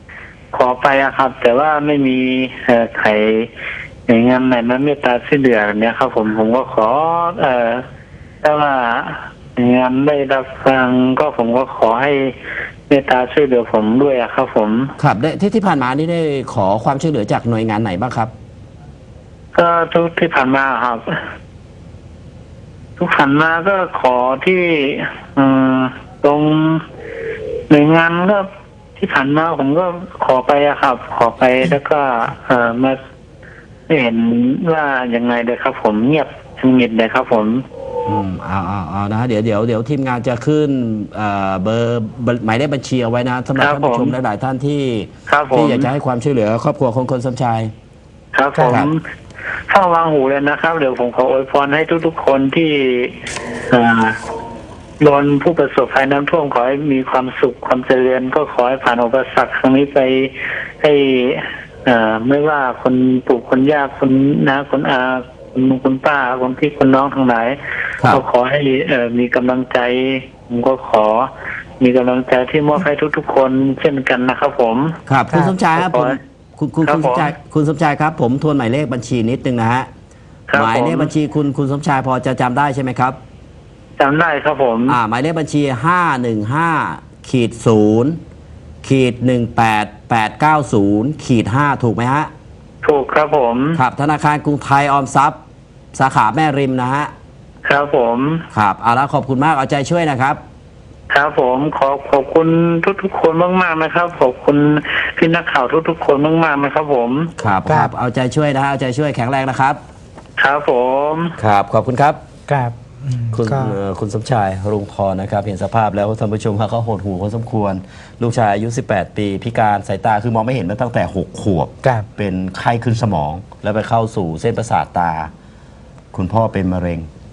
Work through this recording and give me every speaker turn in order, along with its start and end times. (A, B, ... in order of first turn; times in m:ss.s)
0:00.5-0:03.5 A
0:04.1-0:07.8 A
0:08.4-0:12.3 A
0:12.9-0:14.9 A
0:15.0-0:18.3 B
0:19.5-0:21.1 A
0:23.0-0:26.8 A
0:27.7-0:28.5 A
0:29.0-0:33.0 A
0:33.9-0:37.6 A
0:38.0-0:47.7 B
0:43.6-0:44.2 A
0:45.3-0:45.9 A
0:48.3-0:49.0 A
0:48.6-0:48.8 C
0:48.6-0:48.9 B
0:49.7-0:53.2 A
0:53.7-0:54.2 A
0:55.0-1:15.0 A
1:15.1-1:19.9 B
1:15.7-1:16.2 A
1:16.8-1:17.3 A
1:20.5-1:21.1 A
1:20.5-1:23.2 B
1:24.0-1:25.0 A
1:24.9-1:28.2 B
1:28.8-1:32.3 B
1:32.8-1:33.8 A
1:33.7-1:35.4 B
1:35.9-1:37.1 B
1:37.6-1:38.4 A
1:38.5-1:40.4 B
1:41.1-1:47.3 A
1:47.4-1:49.8 B
1:47.6-1:47.9 C
1:50.4-1:51.3 A
1:51.4-1:52.2 B
1:52.5-1:53.8 C
1:53.3-2:05.3 B
2:01.8-2:02.1 C
2:06.1-2:07.1 B